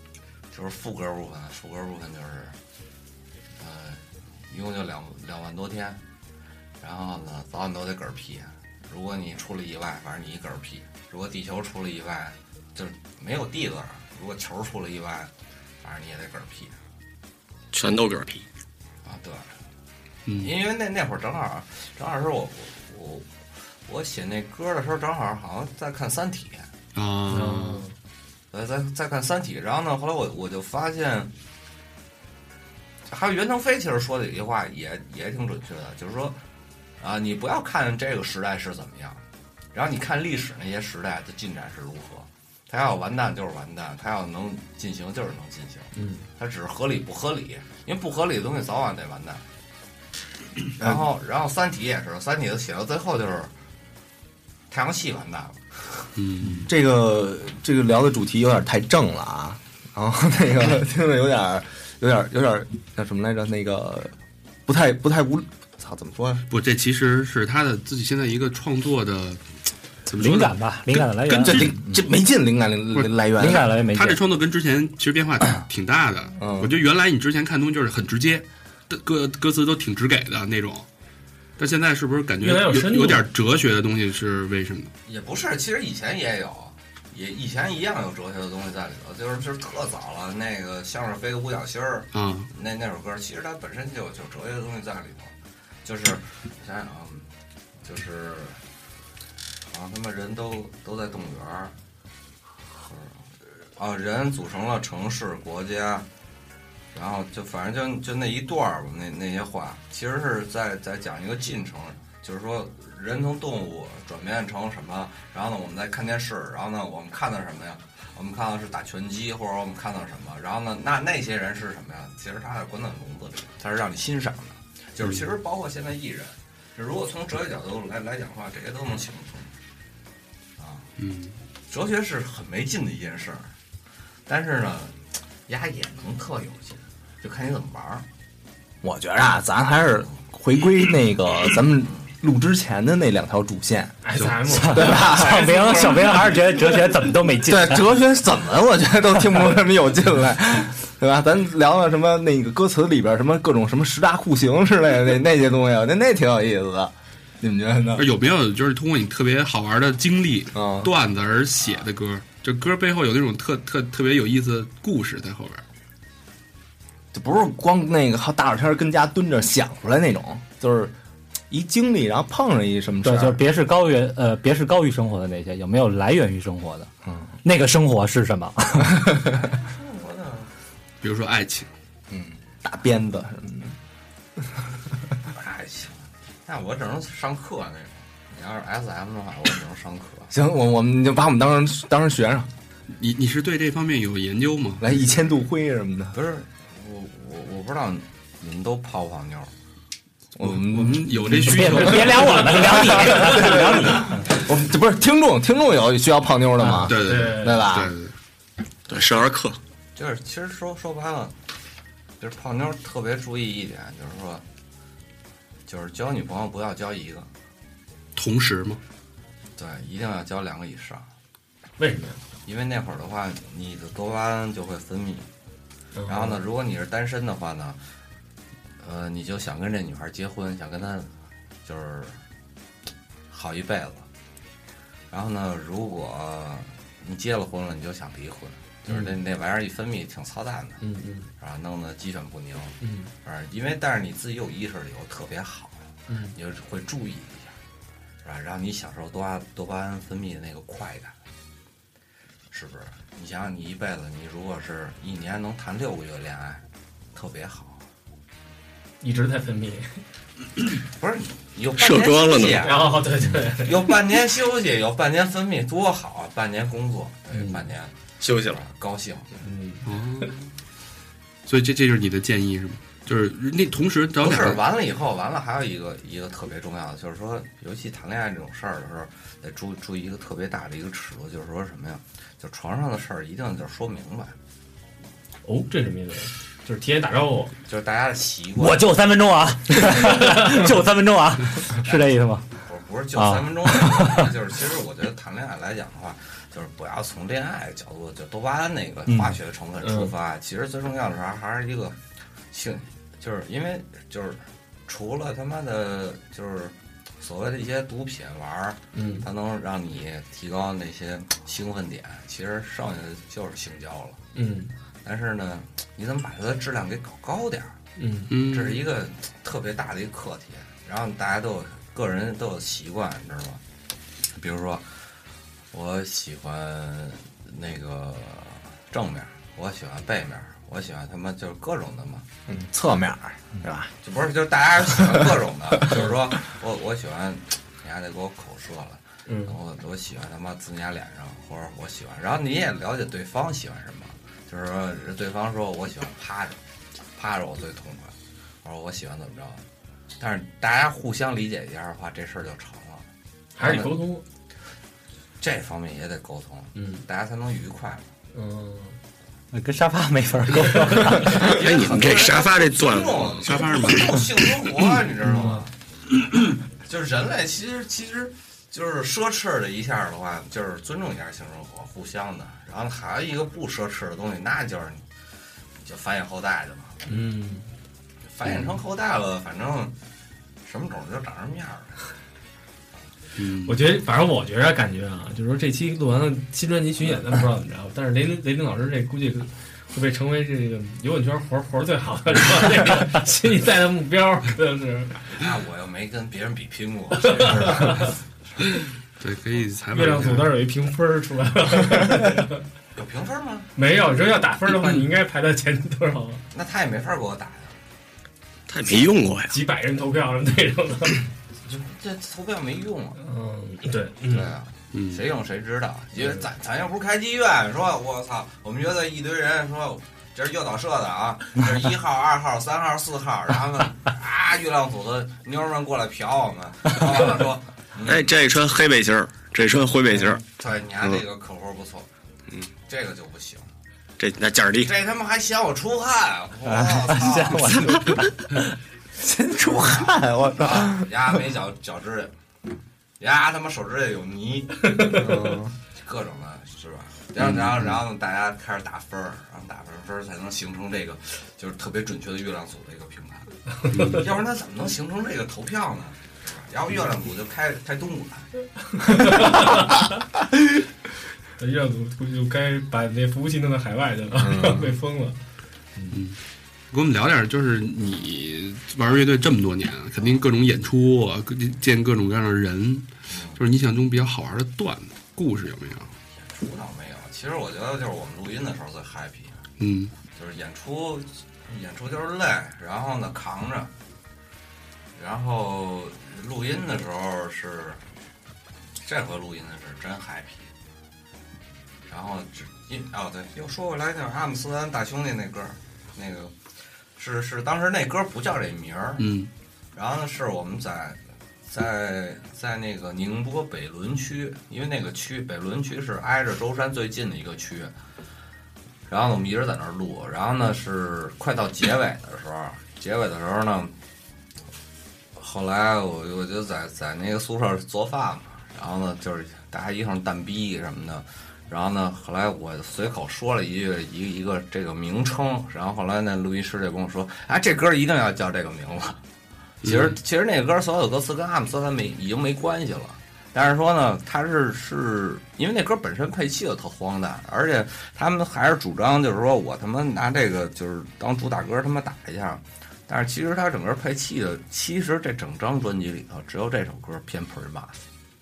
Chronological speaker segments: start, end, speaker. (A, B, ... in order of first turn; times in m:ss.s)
0:00.5-0:02.6 A
0:03.6-0:06.0 A
0:06.8-0:15.3 A
0:15.8-0:16.8 A
0:17.7-0:18.4 B
0:19.0-0:19.5 A
0:20.3-0:20.6 C
0:20.4-0:23.3 A
0:23.8-0:26.7 A
0:26.9-0:27.9 C
0:27.3-0:27.9 D
0:28.5-0:31.3 A
0:33.1-0:36.4 A
0:37.0-0:39.2 A
0:39.7-0:49.4 A
0:45.9-0:46.2 D
0:50.8-0:53.5 A
0:54.7-0:55.7 A
0:56.2-0:56.7 C
0:56.5-1:04.1 E
1:04.6-1:06.4 E
1:06.5-1:09.4 C
1:10.0-1:10.6 C
1:10.2-1:11.6 F
1:11.3-1:13.7 E
1:11.3-1:11.7 C
1:12.9-1:20.8 C
1:13.4-1:14.2 F
1:16.4-1:16.7 E
1:21.6-1:24.9 C
1:22.4-1:23.3 D
1:25.0-1:35.3 A
1:32.1-1:32.5 C
1:35.8-1:37.2 A
1:37.8-1:38.6 A
1:39.7-1:41.7 A
1:42.7-1:46.1 A
1:46.9-2:09.5 A
2:10.6-2:10.9 A
2:11.0-2:11.4 C
2:11.7-2:13.5 A
2:14.3-2:18.0 A
2:18.8-2:24.0 E
2:24.0-2:26.8 D
2:24.5-2:27.8 F
2:24.6-2:25.5 E
2:27.5-2:38.1 E
2:38.0-2:45.6 C
2:40.5-2:40.9 E
2:41.6-2:41.8 A
2:47.1-2:50.9 E
2:51.5-2:53.4 E
2:53.0-2:56.9 F
2:57.0-2:57.3 E
2:57.4-2:59.0 F
2:59.3-3:00.5 A
3:01.0-3:01.7 C
3:02.1-3:03.8 E
3:05.3-3:10.3 A
3:10.3-3:12.5 E
3:12.9-3:14.9 C
3:14.8-3:16.2 E
3:16.1-3:19.5 A
3:20.4-3:22.2 E
3:20.4-3:23.0 C
3:21.3-3:24.2 F
3:22.2-3:23.4 D
3:23.0-3:27.9 E
3:26.8-3:28.1 C
3:27.0-3:27.6 D
3:28.9-3:29.6 B
3:30.0-3:31.3 A
3:32.2-3:34.4 A
3:35.7-3:37.3 A
3:38.2-3:38.8 C
3:39.6-3:41.1 A
3:41.8-3:42.2 D
3:42.4-3:45.3 A
3:46.0-3:46.4 D
3:46.1-3:47.8 A
3:48.8-3:51.1 A
3:51.6-3:52.2 A
3:53.3-3:54.1 A
3:55.1-4:00.8 A
3:58.9-3:59.2 D
4:00.8-4:01.3 D
4:01.4-4:07.6 A
4:02.8-4:03.1 D
4:06.1-4:06.3 D
4:08.2-4:11.1 A
4:12.5-4:17.8 A
4:19.0-4:20.0 D
4:20.9-4:23.0 A
4:21.8-4:22.6 B
4:22.6-4:23.9 D
4:23.6-4:29.3 A
4:27.3-4:27.6 D
4:28.2-4:28.6 B
4:29.4-4:30.3 D
4:29.8-4:30.4 C
4:31.5-4:34.6 C
4:34.2-4:44.3 A
4:45.4-4:47.5 D
4:47.6-4:48.9 A
4:48.6-4:52.4 F
4:51.8-5:02.0 A
4:53.2-4:54.3 F
4:59.8-5:00.1 D
5:02.5-5:14.2 A
5:08.9-5:09.3 D
5:14.3-5:14.7 D
5:15.0-5:17.8 A
5:18.0-5:18.4 D
5:18.3-5:18.8 C
5:18.4-5:23.6 A
5:24.3-5:24.9 A
5:25.7-5:32.2 A
5:32.5-5:33.9 E
5:34.0-5:46.6 A
5:34.8-5:35.3 E
5:39.2-5:39.6 D
5:47.1-5:49.6 A
5:50.2-5:54.0 A
5:53.6-5:54.2 D
5:55.4-5:58.1 A
5:56.7-5:57.0 D
5:58.3-5:59.0 D
5:59.5-6:01.4 F
6:01.1-6:05.7 A
6:01.3-6:04.3 B
6:03.5-6:03.8 C
6:05.3-6:05.6 D
6:06.8-6:15.0 A
6:15.8-6:17.0 A
6:17.0-6:17.7 D
6:18.2-6:19.9 A
6:20.6-6:22.0 A
6:23.4-6:23.9 C
6:23.6-6:35.2 D
6:35.3-6:38.6 A
6:37.2-6:38.1 D
6:39.2-6:40.6 C
6:39.9-6:42.6 D
6:42.9-6:43.7 A
6:43.8-6:46.4 D
6:46.5-6:47.8 A
6:48.7-6:49.6 B
6:49.5-6:51.3 D
6:51.6-6:53.2 A
6:53.2-6:54.5 D
6:54.3-7:08.4 A
6:54.9-6:55.2 C
6:56.2-6:56.4 D
7:08.0-7:10.4 B
7:10.4-7:12.1 A
7:12.8-7:13.6 A
7:14.2-7:14.9 B
7:14.8-7:18.0 A
7:16.6-7:18.5 F
7:19.2-7:21.0 E
7:19.7-7:20.0 A
7:20.6-7:22.3 A
7:23.2-7:25.2 A
7:25.0-7:25.7 E
7:25.9-7:38.5 A
7:27.4-7:28.0 C
7:33.9-7:34.2 D
7:33.9-7:34.2 C
7:39.0-7:40.1 D
7:41.6-7:45.4 D
7:44.3-7:45.0 E
7:46.1-7:46.4 C
7:46.9-7:56.1 C
7:53.3-7:53.6 A
7:56.4-7:59.6 A
7:59.8-8:00.1 C
8:00.3-8:03.9 A
8:05.2-8:08.0 A
8:09.0-8:10.7 A
8:12.1-8:16.5 A
8:17.2-8:19.3 A
8:19.2-8:19.5 C
8:19.9-8:27.9 A
8:29.1-8:33.9 A
8:35.4-8:49.2 A
8:49.8-9:08.0 A
8:49.8-8:50.2 C